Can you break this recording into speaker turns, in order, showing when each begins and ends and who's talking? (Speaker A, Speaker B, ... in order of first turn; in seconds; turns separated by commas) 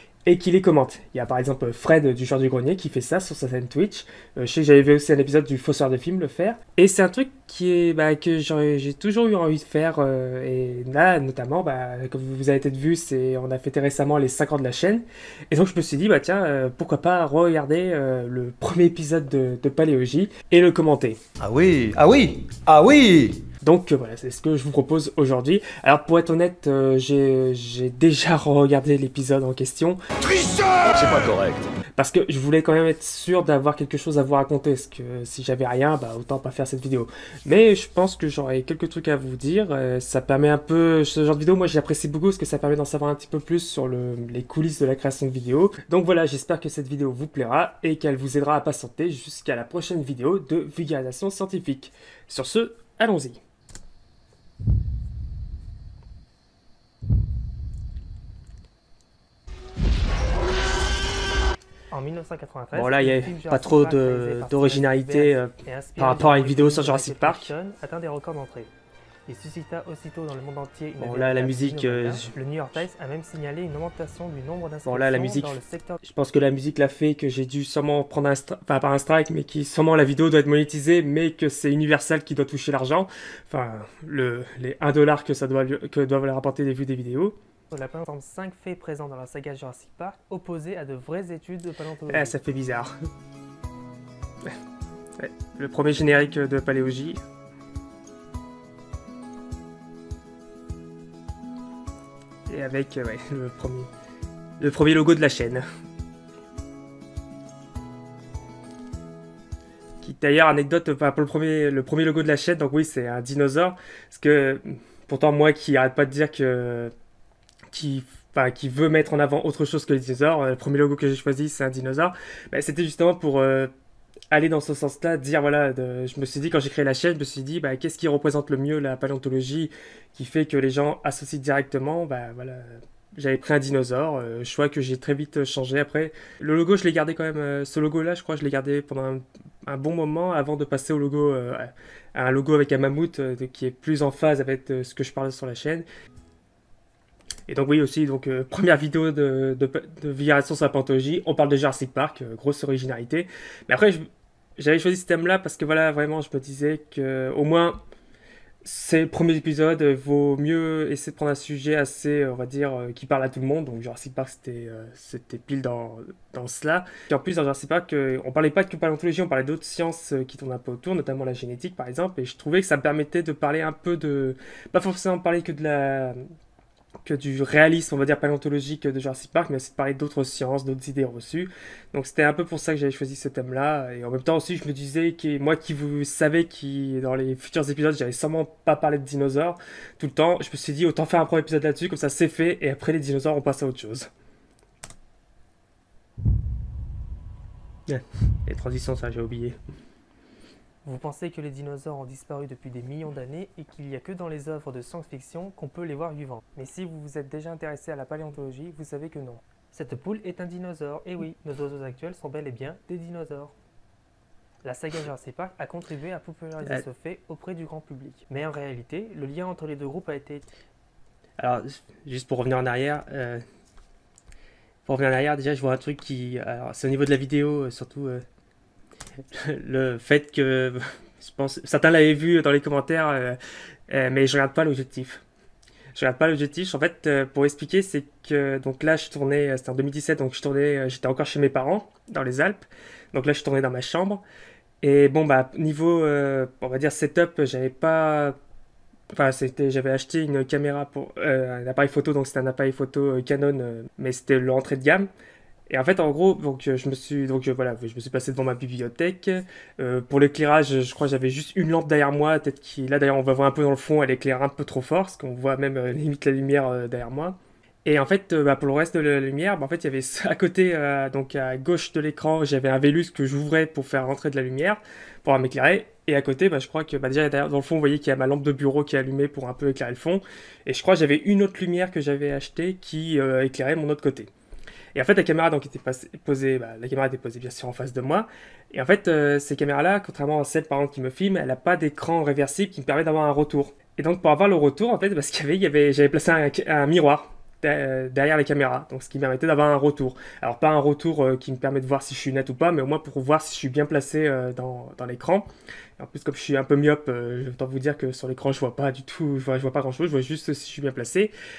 Speaker A: 0.2-21.2, Speaker B: 21.4-23.4, Speaker A: 23.6-30.6, Speaker B: 30.8-31.7, Speaker A: 32.0-53.4, Speaker C: 61.9-68.7, Speaker A: 62.7-67.5, Speaker C: 69.3-76.0, Speaker A: 71.0-72.3, Speaker A: 74.8-87.3, Speaker C: 87.7-92.4, Speaker A: 92.1-92.9, Speaker A: 95.2-97.2, Speaker A: 102.5-103.9, Speaker A: 104.6-105.6, Speaker A: 110.0-116.9, Speaker A: 117.7-123.7, Speaker A: 124.3-145.8, Speaker A: 147.5-157.8, Speaker A: 158.6-176.2, Speaker A: 177.0-194.1, Speaker A: 197.9-199.6, Speaker C: 200.8-213.5, Speaker C: 214.6-220.4, Speaker A: 221.4-223.4, Speaker A: 224.8-228.2, Speaker A: 229.3-233.4, Speaker A: 233.9-235.2, Speaker A: 235.9-244.2, Speaker A: 244.8-248.4, Speaker A: 249.1-255.1, Speaker A: 255.7-284.3, Speaker A: 284.9-311.3